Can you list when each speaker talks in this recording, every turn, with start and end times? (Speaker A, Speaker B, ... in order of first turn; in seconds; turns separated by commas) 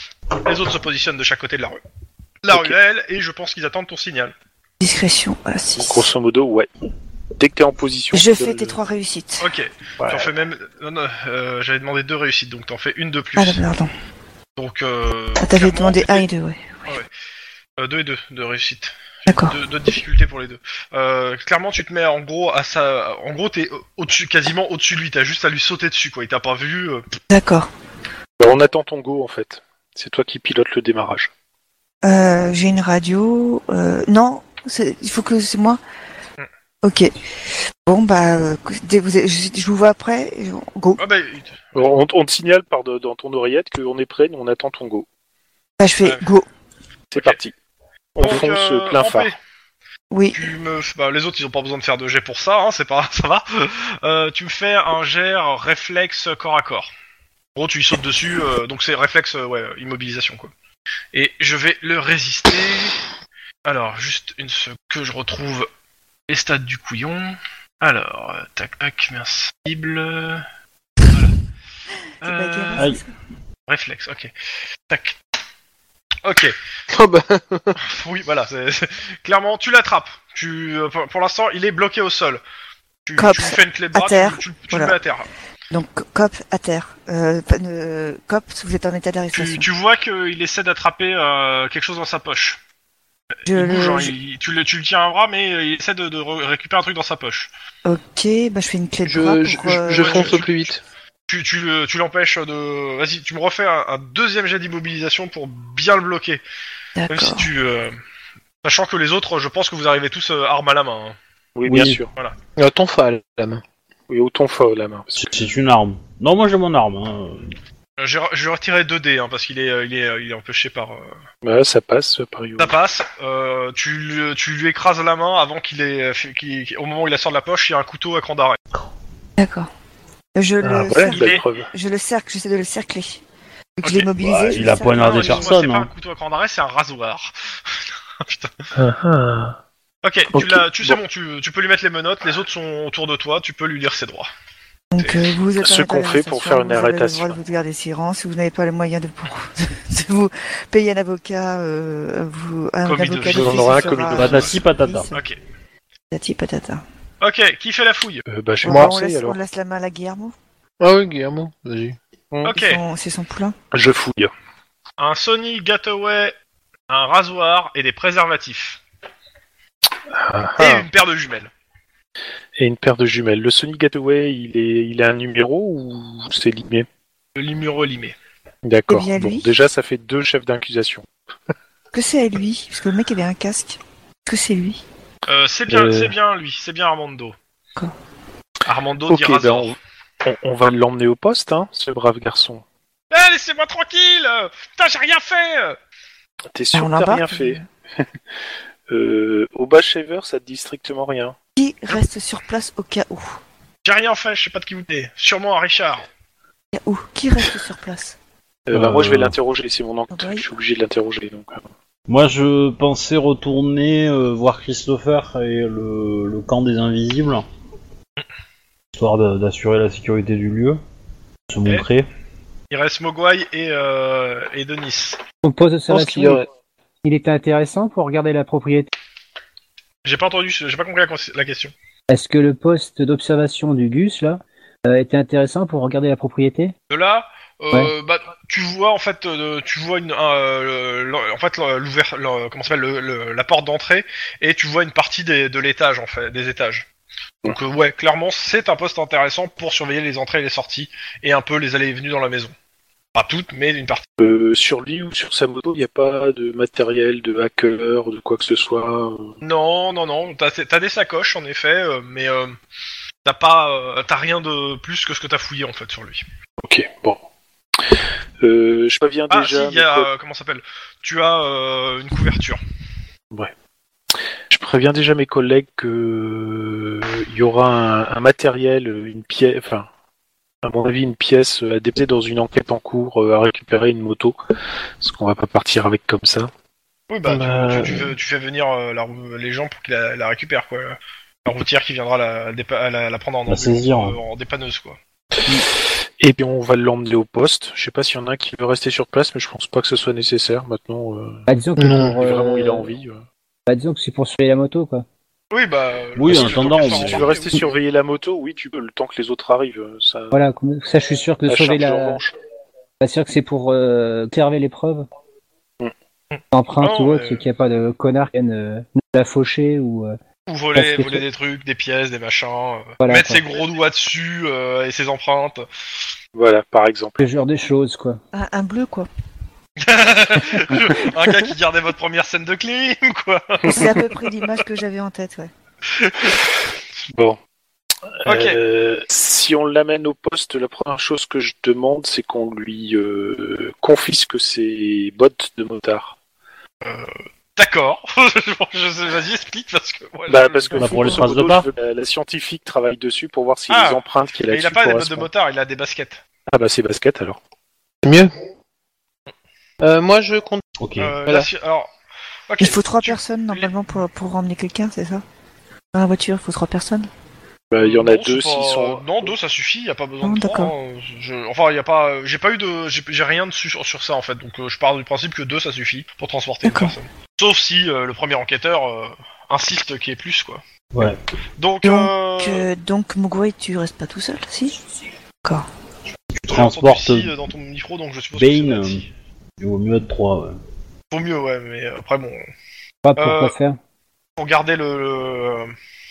Speaker A: 0.4-1.8, Speaker A: 2.4-4.3, Speaker B: 4.8-6.1, Speaker C: 5.8-6.7, Speaker C: 7.4-8.8, Speaker B: 8.1-9.5, Speaker A: 9.4-13.7, Speaker C: 10.0-10.3, Speaker B: 13.4-13.9, Speaker A: 14.6-16.3, Speaker B: 15.4-16.8, Speaker A: 17.8-27.0, Speaker B: 19.3-19.6, Speaker B: 27.3-27.7, Speaker C: 28.4-31.3, Speaker B: 32.0-35.8, Speaker B: 36.8-37.1, Speaker B: 37.9-41.0, Speaker A: 41.0-42.0, Speaker C: 41.8-45.1, Speaker B: 45.8-46.5, Speaker A: 47.1-47.4, Speaker C: 47.1-47.5, Speaker C: 48.1-49.4, Speaker A: 48.2-49.4, Speaker B: 50.1-50.5, Speaker A: 50.3-56.9, Speaker A: 57.6-60.5, Speaker A: 61.1-63.0, Speaker A: 63.6-65.7, Speaker A: 66.3-70.5, Speaker A: 71.1-71.3, Speaker A: 72.2-72.9, Speaker B: 72.2-73.1, Speaker D: 72.8-73.0, Speaker A: 73.7-74.3, Speaker A: 74.9-75.2, Speaker A: 76.2-76.6, Speaker E: 76.9-77.8, Speaker A: 77.8-82.4, Speaker A: 83.0-85.3, Speaker B: 83.2-84.9, Speaker B: 85.7-89.7, Speaker A: 89.3-92.6, Speaker A: 93.5-97.5, Speaker B: 93.5-94.1, Speaker B: 97.8-100.4, Speaker E: 99.0-100.8, Speaker A: 99.7-100.7, Speaker A: 101.3-106.4, Speaker B: 107.0-107.5, Speaker A: 107.1-108.0, Speaker A: 108.6-111.2, Speaker C: 111.6-112.1, Speaker D: 111.7-112.0, Speaker E: 112.6-113.6, Speaker C: 114.1-115.3, Speaker D: 115.2-117.5, Speaker A: 118.0-121.1, Speaker C: 121.4-122.8, Speaker A: 122.6-128.6, Speaker B: 129.4-129.7, Speaker B: 130.3-133.2, Speaker C: 130.6-131.7, Speaker A: 131.1-131.4, Speaker B: 133.8-135.6, Speaker A: 133.8-134.1, Speaker D: 134.2-135.9, Speaker A: 135.0-138.7, Speaker C: 138.8-139.6, Speaker A: 140.0-144.3, Speaker C: 140.3-141.0, Speaker B: 144.9-155.2, Speaker A: 145.0-145.4, Speaker C: 145.6-147.4, Speaker A: 152.8-154.6, Speaker D: 153.2-155.1, Speaker C: 153.4-154.4, Speaker A: 155.1-155.4, Speaker B: 156.1-156.8, Speaker A: 157.2-158.2, Speaker C: 158.3-159.4, Speaker B: 158.6-160.3, Speaker E: 158.7-158.9, Speaker E: 160.8-162.5, Speaker A: 162.5-162.8, Speaker B: 162.5-163.6, Speaker C: 163.7-164.3, Speaker A: 165.0-166.3, Speaker A: 166.9-168.8, Speaker C: 170.1-170.9, Speaker A: 170.6-171.5, Speaker C: 172.6-176.9, Speaker A: 177.4-178.1, Speaker C: 178.6-181.1, Speaker B: 178.9-179.5, Speaker B: 181.9-184.8, Speaker A: 185.3-187.3, Speaker C: 185.7-186.1, Speaker A: 188.7-189.8, Speaker C: 189.1-192.6, Speaker A: 193.1-195.8, Speaker C: 196.5-198.1, Speaker B: 196.7-197.7, Speaker C: 198.9-201.4, Speaker B: 201.6-203.4, Speaker A: 203.8-206.1, Speaker B: 206.7-208.2, Speaker C: 208.7-211.6, Speaker D: 208.7-209.3, Speaker B: 210.1-210.5, Speaker D: 212.1-217.4, Speaker D: 218.9-220.8, Speaker D: 221.5-222.1, Speaker A: 222.7-225.2, Speaker F: 225.4-226.4, Speaker E: 225.9-226.5, Speaker F: 227.0-228.9, Speaker A: 230.0-231.7, Speaker F: 232.1-236.7, Speaker A: 236.9-246.9, Speaker A: 247.4-252.5, Speaker A: 253.1-254.1, Speaker C: 254.2-259.4, Speaker A: 259.4-262.6, Speaker A: 263.2-266.2, Speaker C: 266.6-267.2, Speaker C: 267.8-270.1, Speaker A: 269.3-272.6, Speaker C: 274.5-279.9, Speaker C: 280.6-284.4, Speaker C: 285.0-286.5, Speaker A: 287.1-295.0, Speaker C: 287.3-288.0, Speaker D: 293.5-294.2, Speaker C: 296.2-303.2, Speaker F: 301.5-302.9, Speaker F: 303.7-305.1, Speaker A: 305.5-307.6, Speaker D: 306.1-307.3, Speaker C: 306.3-310.4, Speaker F: 310.3-312.2, Speaker C: 311.5-312.3, Speaker F: 313.0-315.1, Speaker A: 316.3-317.4, Speaker F: 316.5-320.2, Speaker A: 320.5-325.6, Speaker F: 320.8-321.2, Speaker F: 323.0-323.4, Speaker C: 326.4-327.2, Speaker F: 327.2-328.2, Speaker B: 328.3-329.1, Speaker A: 329.8-334.0, Speaker C: 333.6-333.9, Speaker B: 333.7-335.5, Speaker A: 335.9-336.4, Speaker C: 337.1-337.4, Speaker C: 338.2-346.1, Speaker A: 338.3-338.6, Speaker A: 346.8-351.2, Speaker C: 350.3-355.3, Speaker D: 350.8-351.7, Speaker A: 353.7-356.2, Speaker C: 356.5-357.4, Speaker E: 358.0-358.3, Speaker E: 359.8-360.6, Speaker D: 360.8-361.2, Speaker A: 361.0-361.9, Speaker A: 362.5-363.7, Speaker B: 362.6-365.2, Speaker B: 365.9-367.1, Speaker C: 367.7-369.3, Speaker A: 367.8-380.6, Speaker B: 370.2-370.7, Speaker B: 376.6-376.9, Speaker D: 380.9-381.2, Speaker A: 381.6-382.6, Speaker B: 381.8-384.8, Speaker D: 386.3-387.3, Speaker A: 386.5-389.1, Speaker D: 388.4-389.1, Speaker D: 389.6-390.6, Speaker A: 391.1-392.4, Speaker F: 393.0-393.8, Speaker A: 393.2-393.5, Speaker A: 394.4-395.7